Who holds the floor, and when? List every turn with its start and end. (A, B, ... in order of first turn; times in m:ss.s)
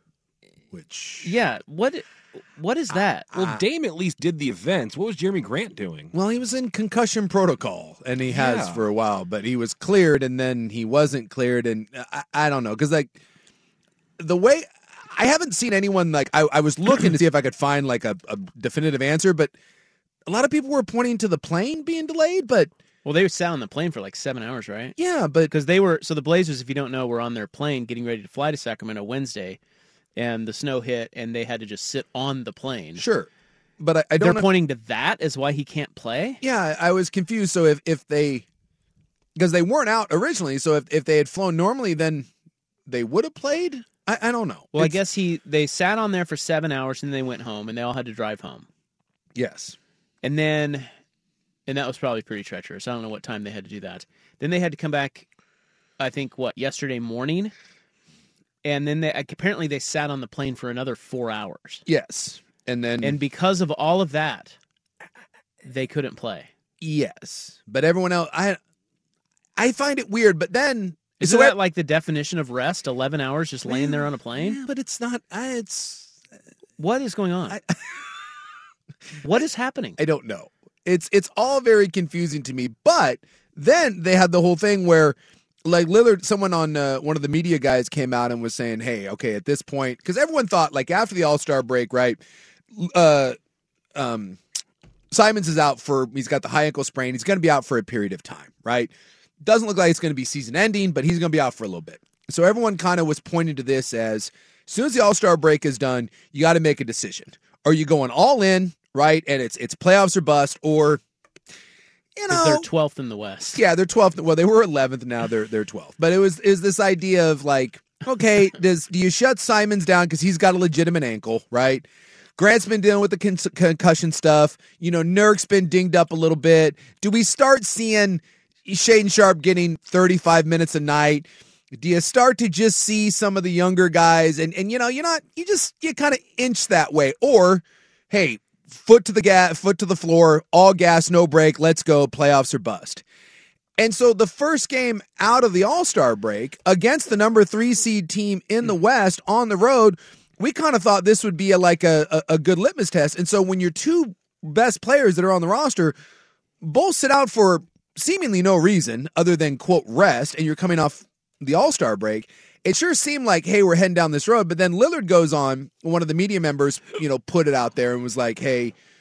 0:00.7-0:01.3 A
0:01.2-0:03.3 B
0:03.3-0:06.1 C
0:03.4-0:03.6 A
0:06.1-0:13.1 A
0:08.2-0:08.8 C
0:14.2-0:19.5 A
0:20.3-0:22.7 A
0:23.0-0:25.0 B
0:25.0-0:25.5 A
0:25.5-0:29.6 B
0:30.2-0:33.0 B
0:33.0-0:33.3 A
0:33.8-0:34.5 A
0:34.2-0:36.4 B
0:36.4-0:38.4 A
0:39.4-0:42.3 A
0:42.9-0:45.0 A
0:44.7-0:48.7 B
0:49.4-0:49.8 A
0:50.2-0:50.9 B
0:51.7-0:55.3 B
0:56.0-0:57.5 B
0:58.6-1:01.8 B
1:01.9-1:03.2 A
1:03.0-1:04.6 B
1:05.6-1:06.5 B
1:06.8-1:08.6 A
1:09.6-1:11.6 A
1:11.2-1:14.6 B
1:13.7-1:16.1 A
1:16.8-1:17.6 B
1:17.5-1:17.8 A
1:19.2-1:20.0 B
1:20.0-1:32.2 A
1:32.7-1:33.4 A
1:34.0-1:34.4 A
1:35.1-1:51.0 A
1:52.2-1:52.7 A
1:52.3-1:53.6 B
1:53.6-2:23.0 A
2:23.8-2:36.0 A
2:36.6-2:48.7 A